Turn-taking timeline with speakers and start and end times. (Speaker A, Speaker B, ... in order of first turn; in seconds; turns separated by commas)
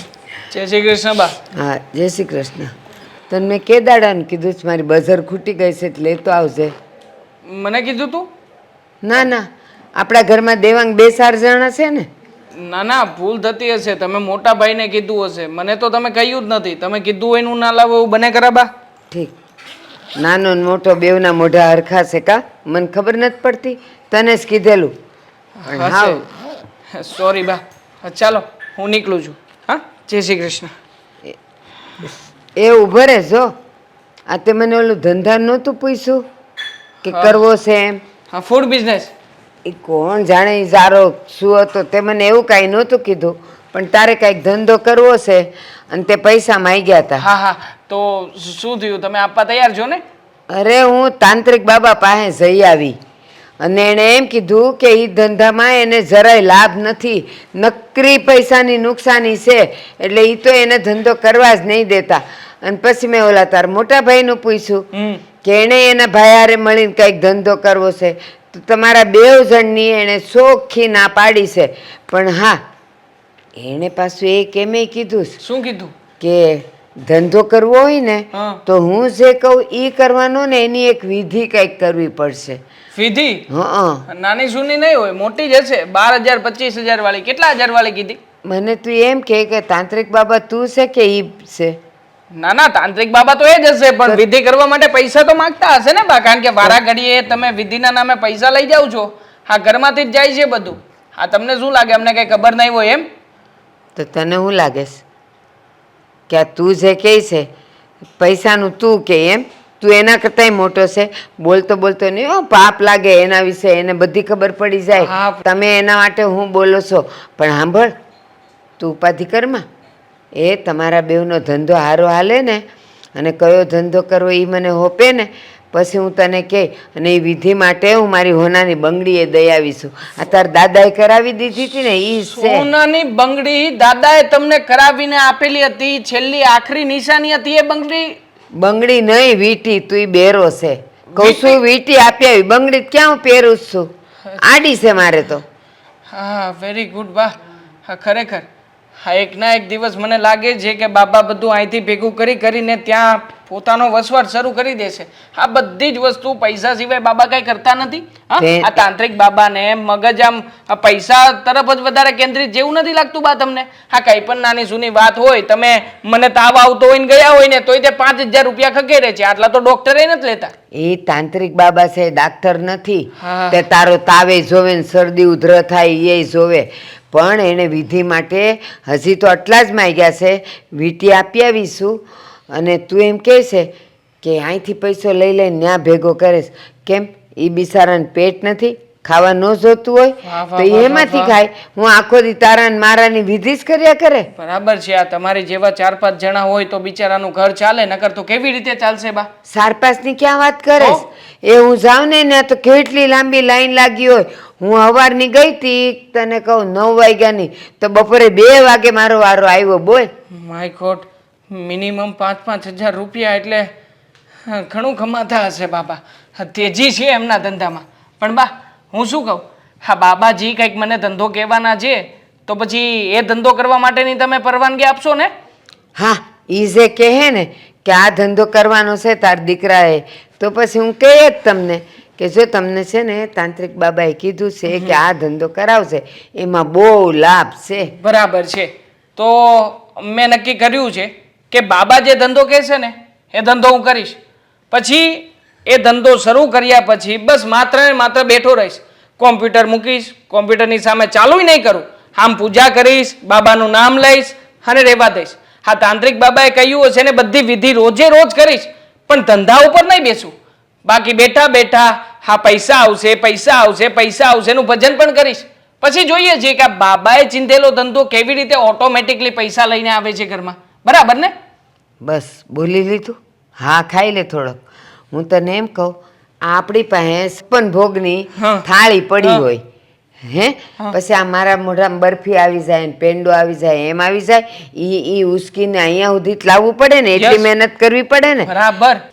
Speaker A: 0.5-1.4, Speaker B: 1.5-2.7, Speaker B: 3.3-6.7, Speaker A: 7.5-8.3, Speaker B: 9.0-12.1, Speaker A: 12.6-18.7, Speaker B: 20.1-24.9, Speaker A: 25.6-30.7, Speaker B: 25.7-26.2, Speaker B: 32.0-33.5, Speaker B: 34.3-36.2, Speaker A: 37.0-37.4, Speaker B: 37.0-38.0, Speaker A: 38.3-39.1, Speaker B: 39.6-47.2, Speaker A: 47.2-50.0, Speaker B: 50.5-52.9, Speaker B: 53.6-64.9, Speaker A: 64.9-65.2, Speaker B: 65.4-72.6, Speaker B: 73.6-75.4, Speaker A: 75.4-75.9, Speaker B: 76.2-82.6, Speaker A: 78.3-78.6, Speaker A: 82.9-83.5, Speaker B: 83.5-84.0, Speaker A: 84.1-88.2, Speaker B: 88.4-91.8, Speaker A: 92.3-103.1, Speaker B: 104.0-105.0, Speaker B: 106.3-107.5, Speaker B: 108.2-117.9, Speaker A: 115.0-115.4, Speaker B: 118.8-119.6, Speaker B: 120.3-122.6, Speaker B: 123.2-132.7, Speaker A: 132.3-138.2, Speaker B: 138.5-143.9, Speaker A: 141.1-141.6, Speaker B: 144.4-145.4, Speaker A: 146.1-148.4, Speaker A: 149.0-170.5, Speaker B: 158.4-158.8, Speaker B: 170.7-183.7, Speaker A: 173.2-173.6, Speaker B: 184.2-194.3, Speaker A: 190.2-191.4, Speaker A: 194.3-199.3, Speaker B: 199.5-210.1, Speaker A: 210.3-213.7, Speaker A: 214.4-225.3, Speaker B: 225.9-237.9, Speaker A: 234.7-235.0, Speaker A: 237.9-244.2, Speaker A: 244.7-260.3, Speaker A: 260.8-271.3, Speaker B: 272.0-274.6, Speaker B: 275.1-279.6, Speaker A: 278.4-278.6, Speaker B: 280.2-288.5, Speaker A: 287.1-287.5, Speaker A: 288.4-289.0